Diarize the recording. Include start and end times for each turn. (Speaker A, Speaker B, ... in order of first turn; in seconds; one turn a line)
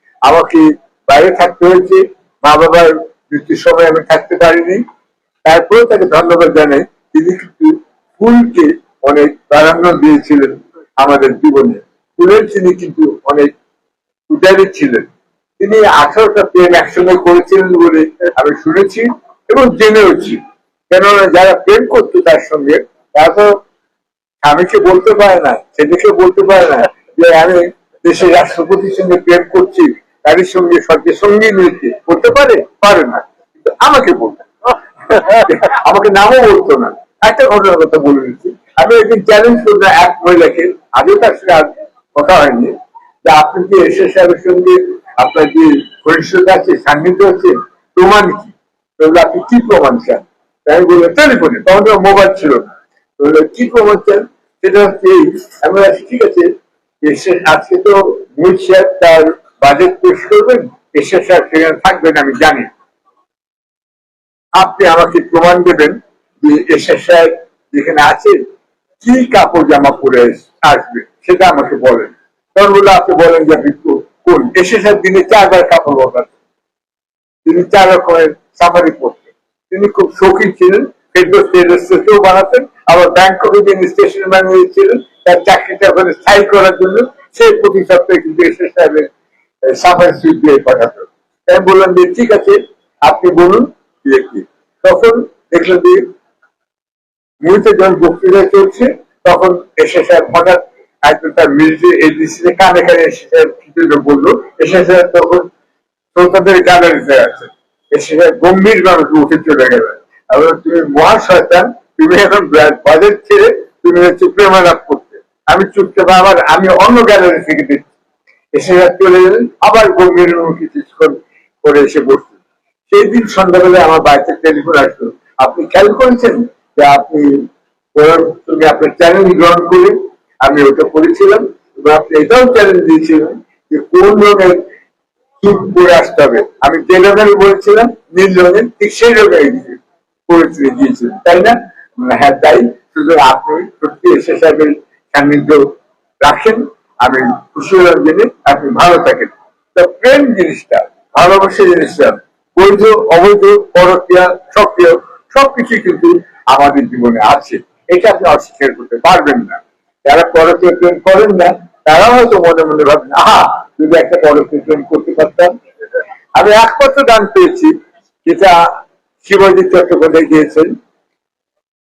Speaker A: 0.2-4.8
Speaker A: 5.4-13.5
Speaker A: 14.3-15.1
Speaker A: 15.6-23.5
Speaker A: 24.4-34.5
Speaker A: 35.1-42.7
Speaker A: 43.2-56.5
Speaker A: 57.0-62.7
Speaker A: 64.5-68.4
Speaker A: 69.0-76.3
Speaker A: 77.5-89.1
Speaker A: 89.6-96.0
Speaker A: 97.4-105.5
Speaker A: 106.1-117.9
Speaker A: 118.5-122.3
Speaker A: 122.9-134.6
Speaker A: 135.4-165.5
Speaker A: 166.3-167.7
Speaker A: 168.2-168.7
Speaker A: 169.2-170.7